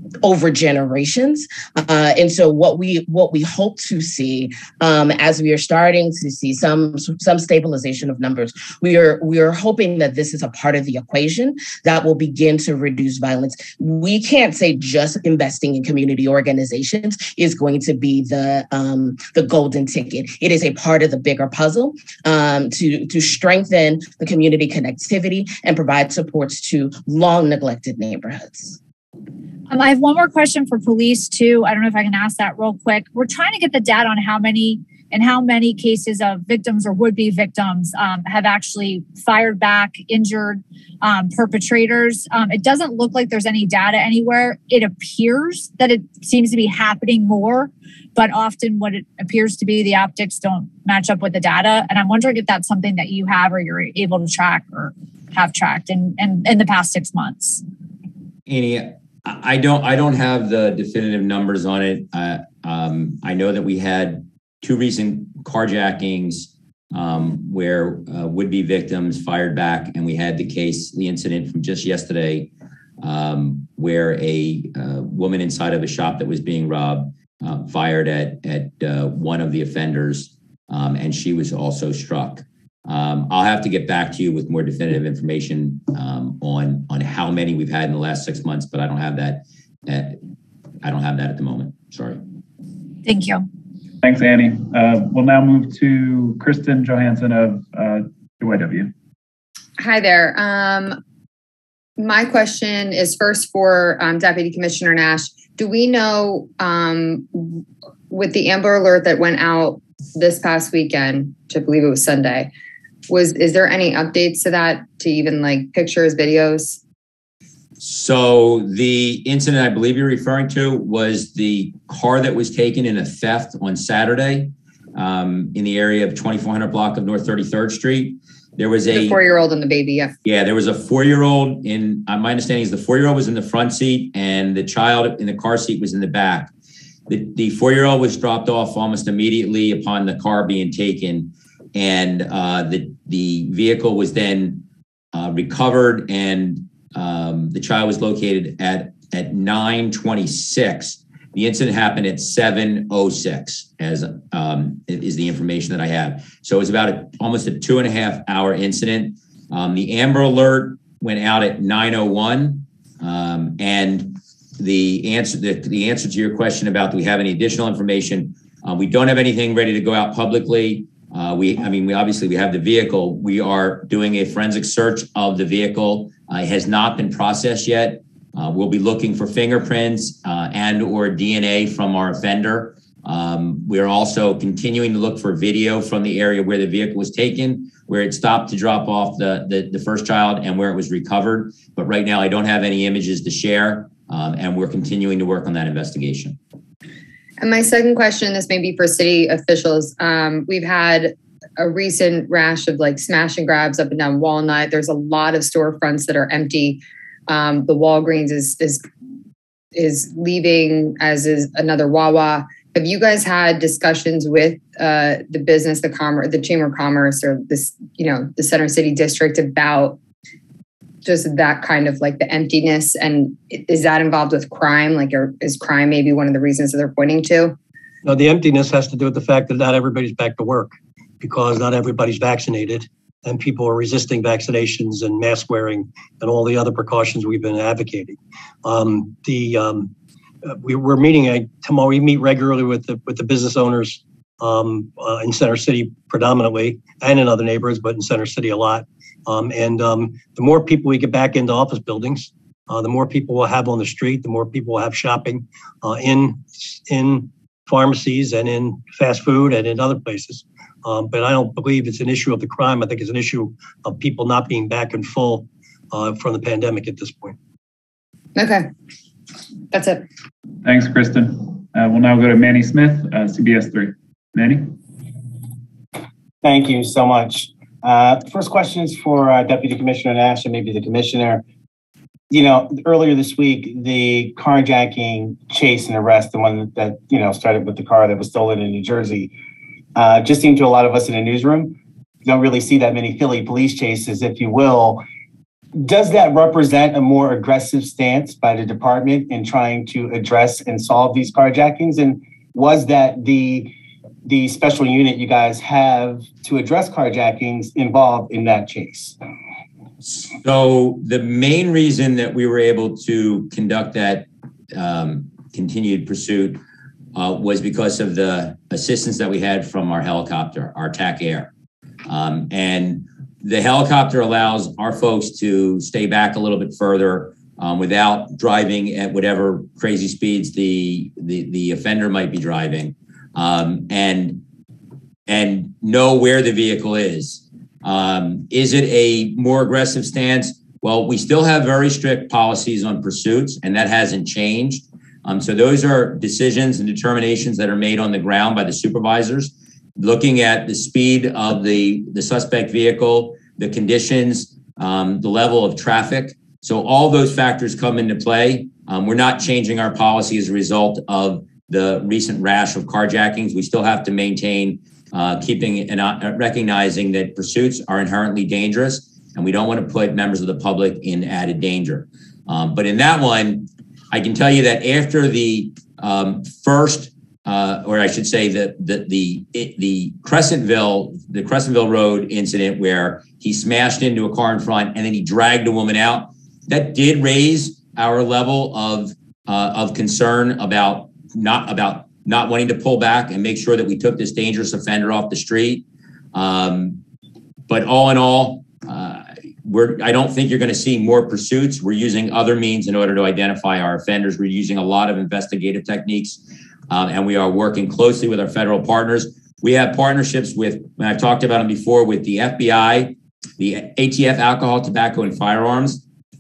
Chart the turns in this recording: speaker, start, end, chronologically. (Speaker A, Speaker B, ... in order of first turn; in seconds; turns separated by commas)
Speaker A: 0.2-28.8, Speaker B: 29.7-57.6, Speaker C: 58.5-72.5, Speaker C: 73.0-90.2, Speaker C: 90.8-92.2, Speaker B: 93.0-93.5, Speaker D: 94.0-98.9, Speaker E: 99.8-101.0, Speaker E: 102.0-112.5, Speaker E: 113.1-116.8, Speaker C: 117.8-129.2, Speaker E: 128.9-130.1, Speaker C: 130.2-136.5, Speaker C: 137.1-196.4, Speaker E: 197.4-208.8, Speaker E: 209.8-220.0, Speaker E: 221.0-227.6, Speaker F: 228.1-239.9, Speaker F: 240.4-267.4, Speaker E: 268.4-268.7, Speaker E: 269.7-270.1, Speaker D: 270.6-274.8, Speaker G: 276.4-281.4, Speaker G: 282.3-289.3, Speaker G: 290.0-295.0, Speaker G: 295.8-303.7, Speaker G: 304.2-309.2, Speaker C: 310.1-316.6, Speaker C: 317.1-321.5, Speaker C: 322.1-334.4, Speaker C: 335.3-397.0, Speaker C: 397.7-416.0